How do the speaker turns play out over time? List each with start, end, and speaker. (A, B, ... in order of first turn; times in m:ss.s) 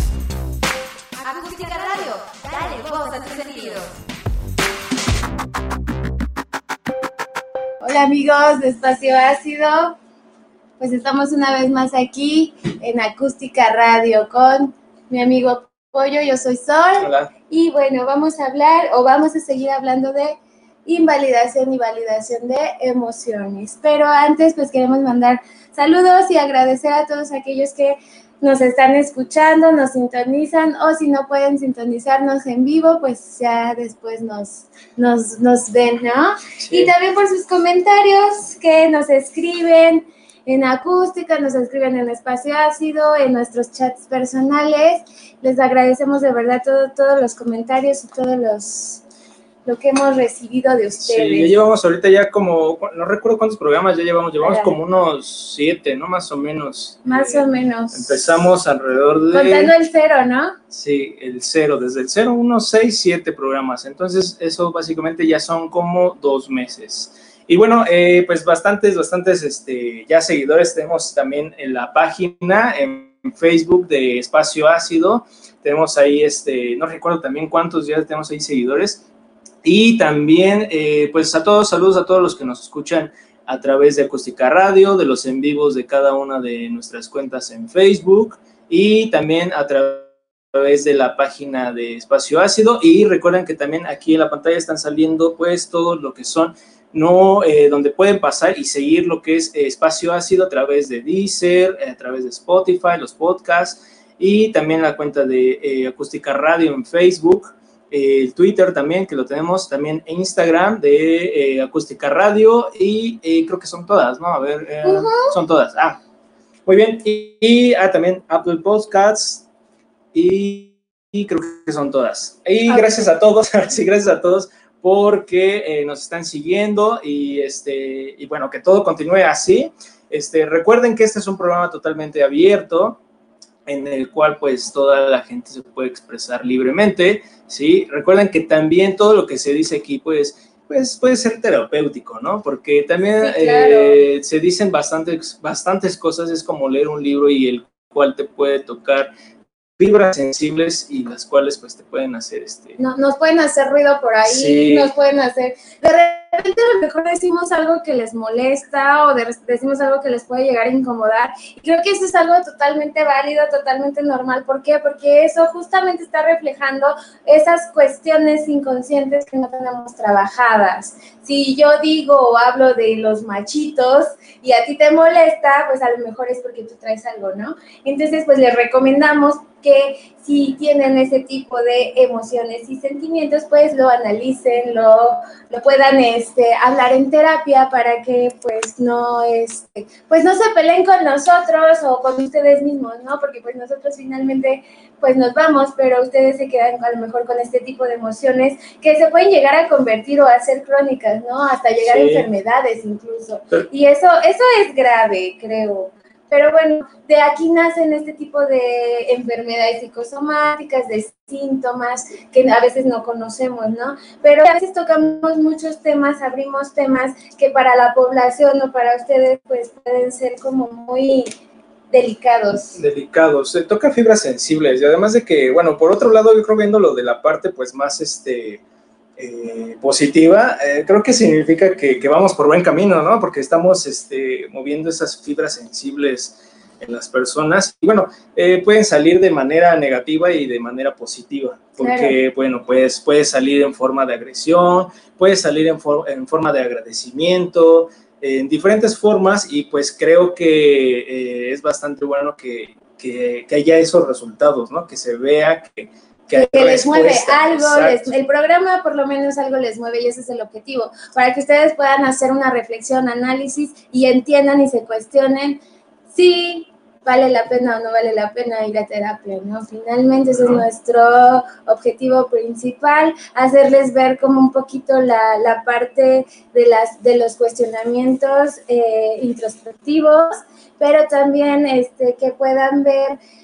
0:01.2-0:04.0 A
0:07.8-0:10.0 B
0:10.8-0:49.0 B
0:17.0-0:17.3 C
0:36.6-0:36.9 C
0:49.7-0:51.6 B
0:51.0-0:59.7 C
0:54.4-0:54.8 B
0:57.0-0:58.2 B
0:59.3-1:00.6 B
1:00.7-1:19.0 C
1:19.6-1:56.0 C
1:54.8-1:55.3 B
1:56.7-1:59.4 C
2:00.1-2:13.0 C
2:02.7-2:03.0 B
2:13.7-2:29.1 C
2:23.2-2:24.0 B
2:29.8-2:32.8 C
2:32.8-3:41.3 B
2:34.2-2:34.9 C
3:21.8-3:22.3 C
3:41.9-3:42.8 B
3:42.8-3:48.6 C
3:49.2-4:18.1 C
4:01.8-4:02.2 B
4:16.3-4:25.6 B
4:26.1-4:43.2 B
4:30.3-4:30.7 C